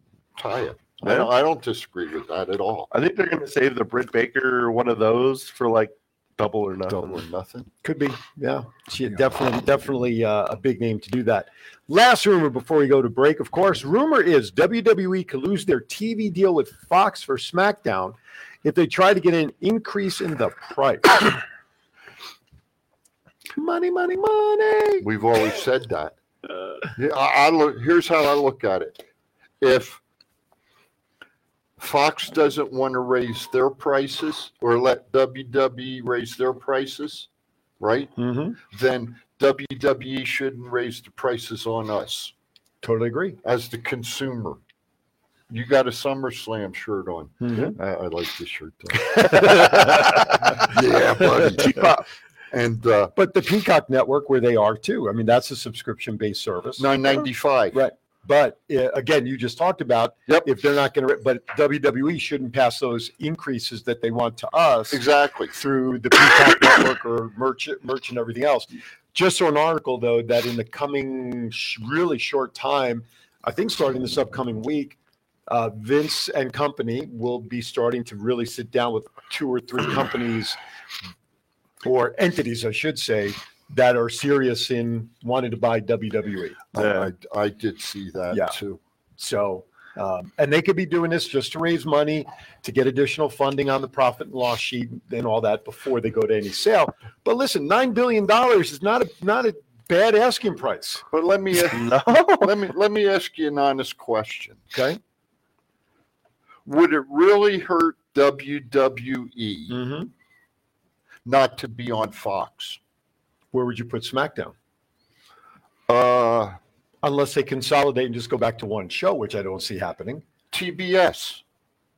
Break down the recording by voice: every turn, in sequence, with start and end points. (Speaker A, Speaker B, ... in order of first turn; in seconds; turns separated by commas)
Speaker A: 0.3-2.9, Speaker B: 1.0-1.3, Speaker B: 2.9-7.2, Speaker A: 6.9-7.7, Speaker C: 7.8-21.3, Speaker C: 23.6-25.1, Speaker A: 25.0-26.1, Speaker A: 26.9-29.0, Speaker A: 29.6-30.0, Speaker A: 31.8-37.3, Speaker A: 37.8-42.3, Speaker C: 38.2-38.6, Speaker C: 42.8-43.4, Speaker A: 43.4-44.6, Speaker A: 45.5-51.9, Speaker C: 47.4-47.8, Speaker C: 49.2-50.6, Speaker C: 51.4-51.9, Speaker B: 51.6-52.0, Speaker A: 52.5-53.1, Speaker C: 53.1-57.0, Speaker A: 56.8-57.8, Speaker C: 57.7-65.0, Speaker A: 64.9-65.5, Speaker C: 65.5-75.0, Speaker C: 75.5-80.6, Speaker C: 81.8-86.7, Speaker A: 86.7-88.8, Speaker B: 86.8-87.1, Speaker C: 88.3-88.6, Speaker C: 89.2-101.0, Speaker A: 101.1-104.6, Speaker B: 101.7-102.6, Speaker C: 104.7-105.0, Speaker A: 106.6-109.8, Speaker C: 109.7-110.1, Speaker A: 111.2-112.8, Speaker C: 113.5-114.5, Speaker A: 115.9-116.6, Speaker C: 117.0-120.2, Speaker A: 120.5-121.4